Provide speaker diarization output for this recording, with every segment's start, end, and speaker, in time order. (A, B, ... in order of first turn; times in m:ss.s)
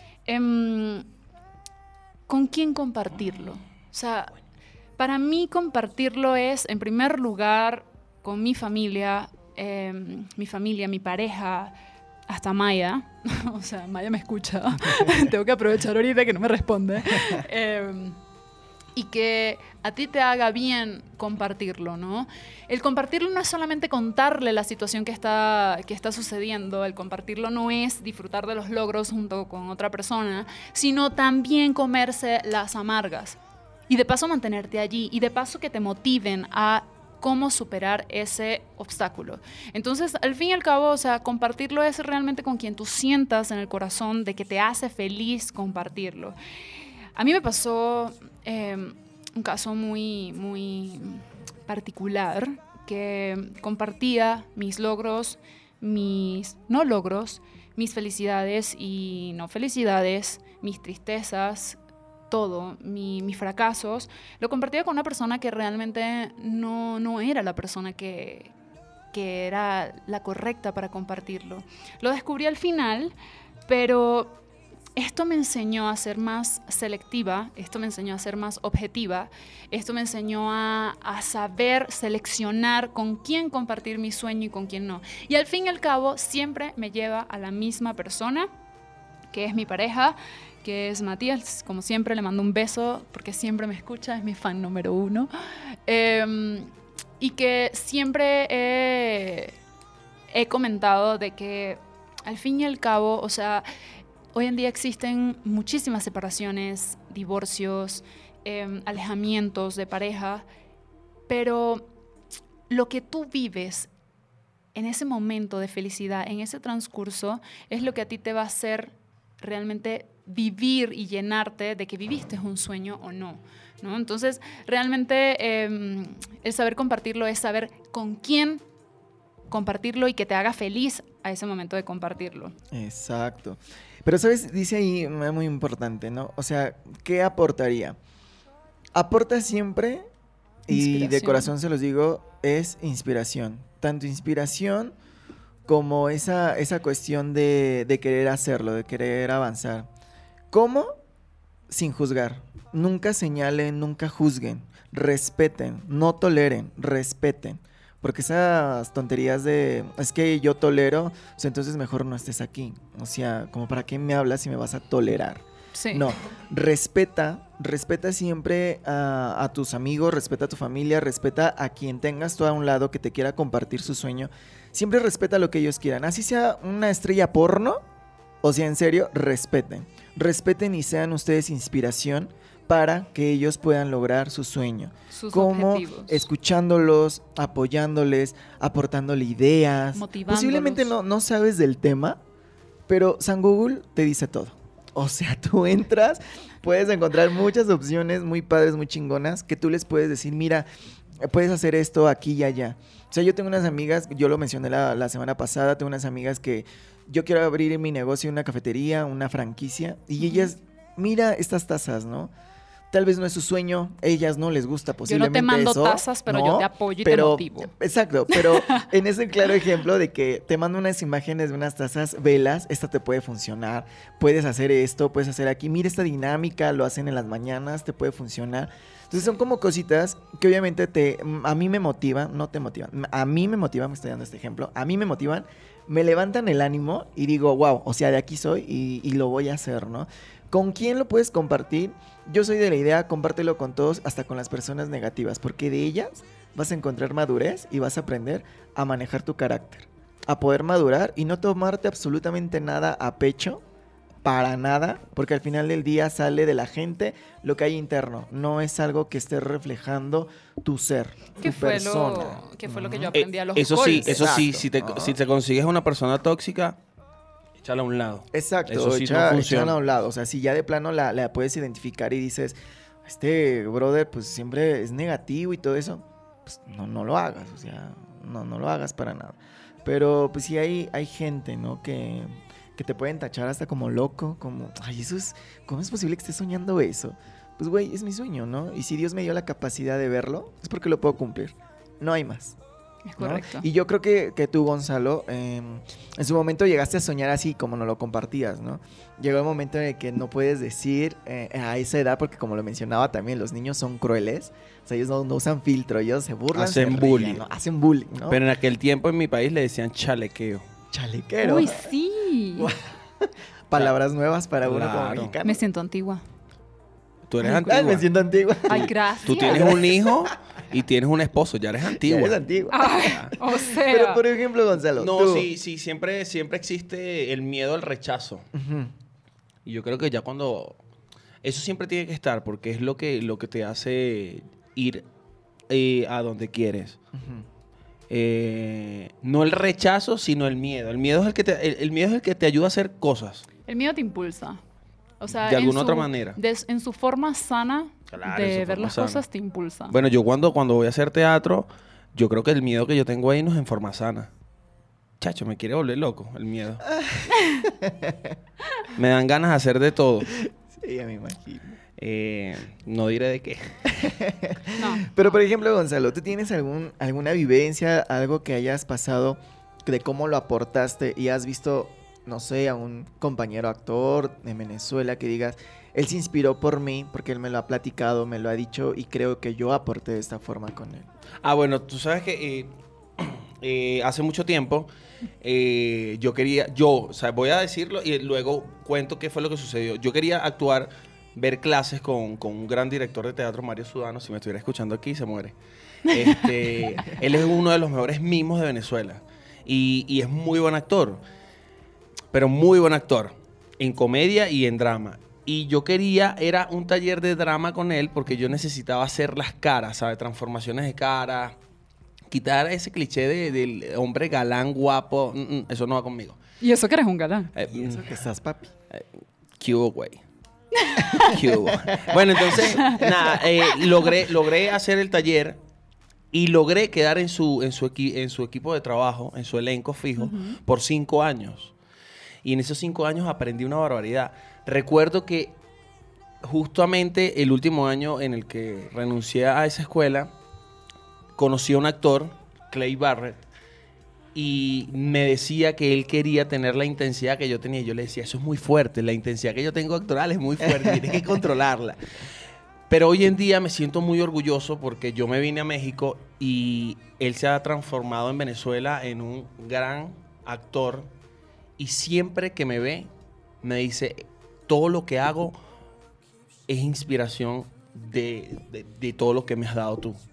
0:00.3-0:01.1 A
0:02.3-0:04.4 A
0:05.0-0:11.7 A
0:12.3-0:18.2 A
0:19.0-0:33.4 A
0:33.9-0:46.4 A
0:47.2-1:01.8 A
1:02.3-1:08.5 A
1:09.1-1:13.1 A
1:13.7-1:14.4 A
1:15.0-1:28.5 A
1:29.3-1:35.3 A
1:35.9-1:39.6 A
1:40.3-1:43.7 A
1:44.3-1:50.5 A
1:51.3-1:51.9 A
1:52.7-1:53.9 A
1:54.8-2:08.6 A
2:09.5-2:12.5 A
2:12.7-2:18.0 B
2:18.9-2:20.1 B
2:20.7-2:24.9 B
2:20.7-2:21.5 A
2:25.7-2:29.9 B
2:30.5-2:30.9 B
2:31.7-2:57.8 B
2:45.7-2:46.1 A
2:58.4-3:12.2 B
3:05.1-3:06.2 A
3:10.0-3:10.9 A
3:12.9-3:20.7 B
3:21.2-3:32.3 B
3:30.2-3:30.5 A
3:32.9-4:13.6 B
3:35.1-3:37.7 A
3:38.3-3:38.8 A
4:14.2-4:23.2 B
4:21.4-4:24.3 A
4:23.1-4:26.8 C
4:24.0-4:25.2 B
4:27.6-4:29.8 C
4:28.3-4:52.6 B
4:53.1-4:53.6 A
4:53.2-5:08.4 B
5:06.5-5:07.4 C
5:08.3-5:10.7 C
5:10.9-5:11.9 B
5:11.4-5:12.7 A
5:12.6-5:15.6 B
5:14.6-5:15.4 C
5:15.4-5:16.2 A
5:17.3-5:18.1 C
5:17.4-5:20.3 B
5:18.7-5:19.8 A
5:18.7-5:22.4 C
5:21.9-5:25.5 B
5:22.7-5:24.2 A
5:25.0-5:28.5 C
5:28.5-5:28.9 B
5:29.6-5:30.8 C
5:31.4-5:35.0 C
5:35.7-5:37.0 C
5:37.1-5:37.5 B
5:38.1-5:43.4 C
5:43.7-5:44.6 A
5:45.2-5:49.9 A
5:45.4-5:46.4 C
5:48.1-5:49.2 C
5:49.9-5:54.3 C
5:55.2-5:56.8 C
5:56.9-5:58.4 B
5:59.0-6:00.3 C
6:00.4-6:01.8 B
6:02.0-6:03.8 C
6:03.9-6:21.1 B
6:04.8-6:05.2 A
6:21.4-6:24.9 C
6:25.4-6:41.2 C
6:42.3-6:51.6 C
6:52.3-6:56.4 C
6:56.6-6:57.5 A
6:57.6-6:58.1 C
6:57.6-6:58.7 B
6:58.9-7:00.2 C
7:00.9-7:01.4 A
7:01.2-7:05.6 C
7:01.2-7:03.0 B
7:02.8-7:03.0 A
7:06.3-7:11.7 C
7:10.2-7:10.6 A
7:12.4-7:15.6 C
7:16.4-7:20.3 C
7:21.4-7:23.4 C
7:24.3-7:32.1 C
7:30.8-7:31.1 B
7:32.9-7:41.1 C
7:41.8-7:43.1 C
7:43.6-7:45.6 C
7:46.7-7:50.2 C